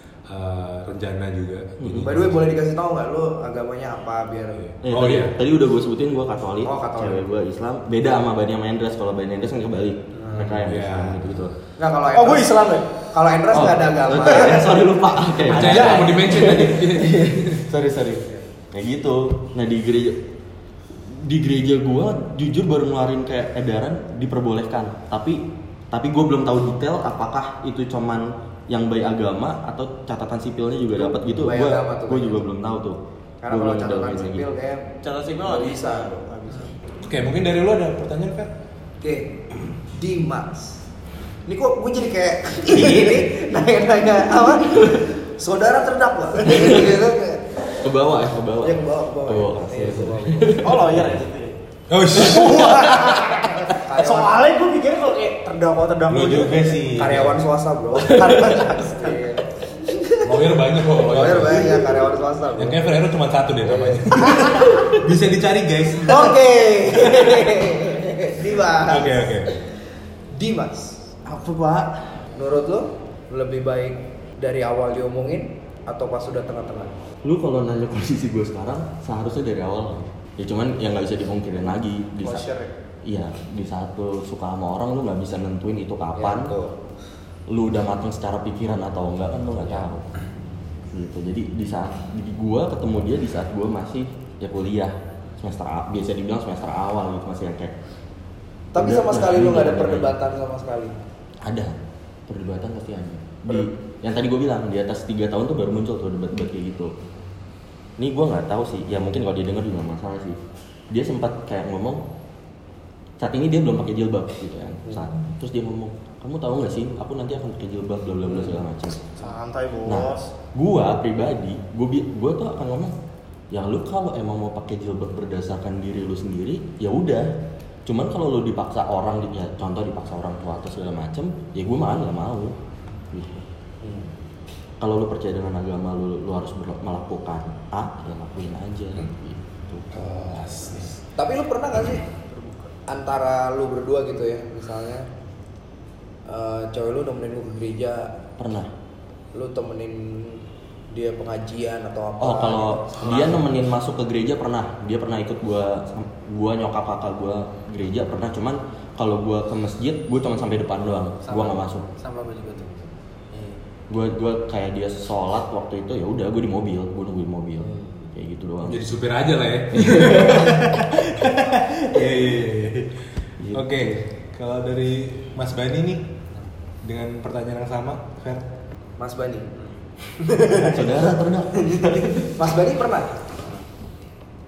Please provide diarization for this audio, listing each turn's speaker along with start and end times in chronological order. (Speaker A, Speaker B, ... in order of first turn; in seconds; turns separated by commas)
Speaker A: 0.3-2.5, Speaker B: 1.8-2.1, Speaker C: 2.0-4.7, Speaker A: 4.6-5.3, Speaker B: 4.8-11.5, Speaker C: 6.6-7.3, Speaker C: 10.2-10.5, Speaker A: 10.3-11.2, Speaker C: 11.8-12.5, Speaker D: 12.1-12.9, Speaker C: 13.1-14.8, Speaker B: 13.5-20.2, Speaker D: 14.3-14.6, Speaker A: 15.4-17.7, Speaker B: 21.0-34.5, Speaker C: 31.0-32.4, Speaker C: 33.4-34.9, Speaker E: 35.0-36.7, Speaker C: 35.4-36.2, Speaker D: 36.2-36.7, Speaker A: 37.0-38.5, Speaker C: 39.0-40.8, Speaker C: 41.5-47.4, Speaker B: 42.7-43.2, Speaker B: 46.5-47.0, Speaker B: 47.8-51.1, Speaker C: 48.6-50.7, Speaker D: 50.5-51.6, Speaker A: 51.9-53.3, Speaker D: 52.1-56.8, Speaker C: 53.6-54.3, Speaker A: 56.1-57.4, Speaker C: 56.9-60.2, Speaker D: 58.0-59.2, Speaker A: 60.2-61.9, Speaker C: 61.0-62.8, Speaker A: 62.6-66.4, Speaker C: 63.6-64.9, Speaker C: 66.0-69.5, Speaker A: 68.8-69.6, Speaker C: 70.3-71.3, Speaker C: 72.3-76.9, Speaker B: 77.2-82.5, Speaker D: 82.2-82.7, Speaker B: 83.0-86.5, Speaker C: 86.2-86.7, Speaker B: 87.5-90.0, Speaker B: 90.9-97.7, Speaker C: 98.7-101.0, Speaker B: 98.7-100.2, Speaker B: 101.4-101.8, Speaker B: 102.3-106.9, Speaker B: 108.0-110.4, Speaker B: 110.9-112.0, Speaker B: 113.2-119.2, Speaker D: 119.2-120.3, Speaker B: 119.8-122.9, Speaker B: 123.5-132.6, Speaker B: 133.1-133.5, Speaker C: 133.8-134.1, Speaker B: 134.8-140.3, Speaker A: 139.9-141.0, Speaker C: 141.2-142.0, Speaker D: 142.3-142.7, Speaker C: 142.9-145.1, Speaker C: 146.3-148.2, Speaker B: 148.4-148.7, Speaker C: 149.3-153.1, Speaker B: 152.2-161.9, Speaker A: 153.0-153.4, Speaker E: 161.2-163.6, Speaker B: 163.9-168.8, Speaker A: 168.6-172.9, Speaker B: 169.7-170.3, Speaker B: 173.4-173.9, Speaker A: 173.5-176.1, Speaker A: 176.8-178.4, Speaker C: 179.0-179.5, Speaker D: 180.4-180.8, Speaker B: 180.5-182.2, Speaker C: 182.3-183.1